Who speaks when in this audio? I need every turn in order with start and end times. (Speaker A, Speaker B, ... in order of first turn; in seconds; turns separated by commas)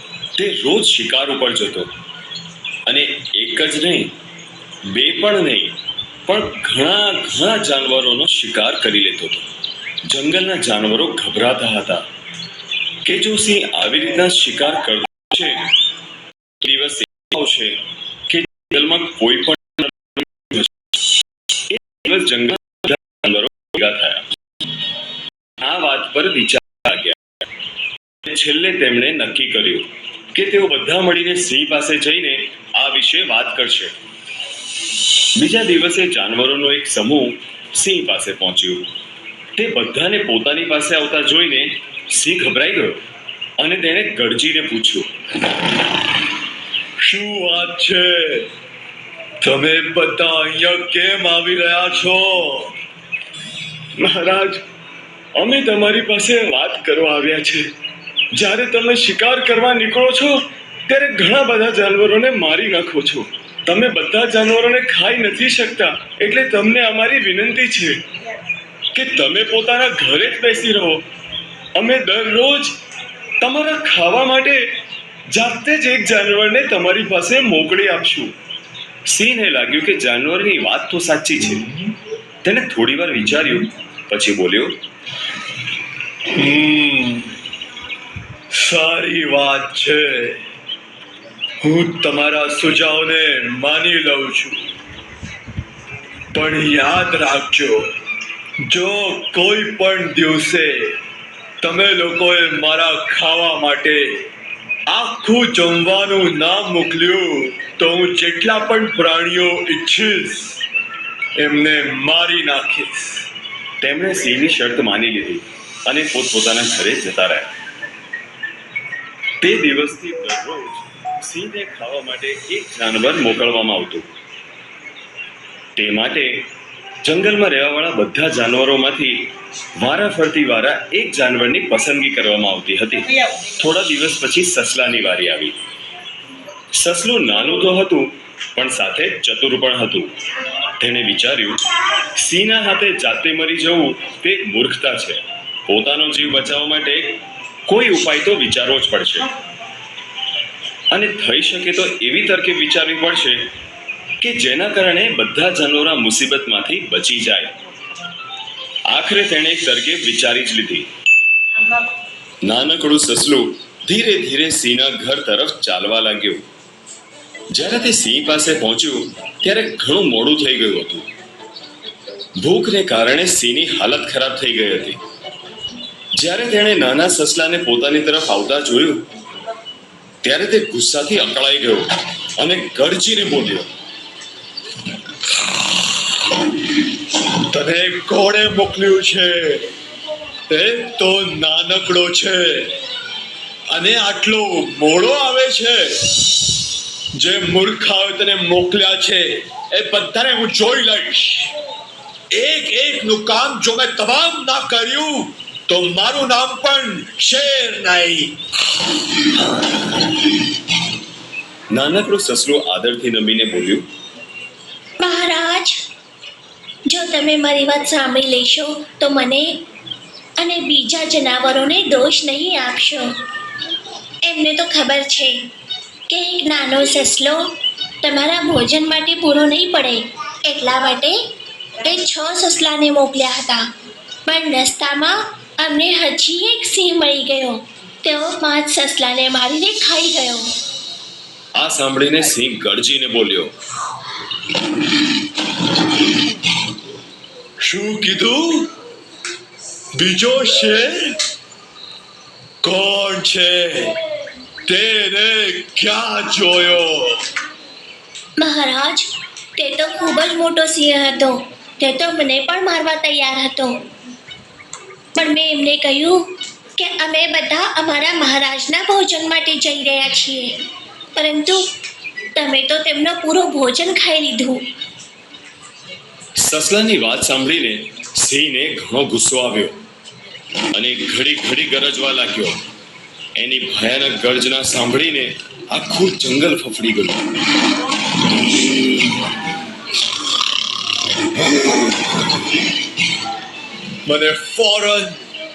Speaker A: 0.4-1.9, Speaker A: 2.9-4.1, Speaker A: 4.9-9.5, Speaker A: 10.1-12.1, Speaker A: 13.0-15.7, Speaker A: 16.6-20.7, Speaker A: 21.7-24.3, Speaker A: 25.6-27.2, Speaker A: 28.2-34.0, Speaker A: 35.4-38.9, Speaker A: 39.6-43.0, Speaker A: 43.6-45.1, Speaker B: 47.0-48.5, Speaker B: 49.4-52.8, Speaker A: 54.0-54.6, Speaker A: 55.4-57.7, Speaker A: 58.3-68.0, Speaker A: 68.9-71.0, Speaker A: 71.8-72.8, Speaker A: 73.4-74.7, Speaker A: 75.3-78.3, Speaker A: 79.1-81.7, Speaker A: 82.4-84.8, Speaker B: 86.3-87.3, Speaker B: 88.5-90.4, Speaker B: 91.6-94.7, Speaker B: 96.3-97.9, Speaker B: 98.7-101.0, Speaker B: 101.6-104.3, Speaker B: 104.9-110.6, Speaker B: 111.4-113.2, Speaker A: 113.8-117.5, Speaker A: 119.4-124.1, Speaker A: 125.8-126.5, Speaker A: 127.0-135.6, Speaker A: 136.7-140.1, Speaker A: 140.8-149.3, Speaker A: 150.9-153.5, Speaker A: 154.2-157.5, Speaker A: 158.9-160.9, Speaker A: 162.4-166.4, Speaker A: 167.5-171.1, Speaker A: 172.4-175.0, Speaker A: 176.2-179.1, Speaker A: 180.2-183.7, Speaker B: 187.4-189.7, Speaker B: 190.5-192.8, Speaker B: 193.7-196.2, Speaker B: 197.1-201.5, Speaker B: 202.3-208.4, Speaker A: 211.7-213.9, Speaker C: 215.0-215.8, Speaker C: 216.9-219.6, Speaker C: 220.4-223.1, Speaker C: 224.2-225.4, Speaker C: 226.1-227.4, Speaker C: 228.0-231.2, Speaker C: 231.8-233.7, Speaker C: 234.3-240.5, Speaker A: 241.6-243.5, Speaker B: 247.6-248.7, Speaker B: 249.9-251.2, Speaker B: 252.6-253.9, Speaker B: 254.7-257.2, Speaker C: 258.4-263.8, Speaker C: 265.2-270.5, Speaker C: 271.2-271.6, Speaker C: 272.4-274.6, Speaker A: 276.4-279.8, Speaker A: 280.7-282.6, Speaker A: 283.4-287.2, Speaker B: 294.1-295.2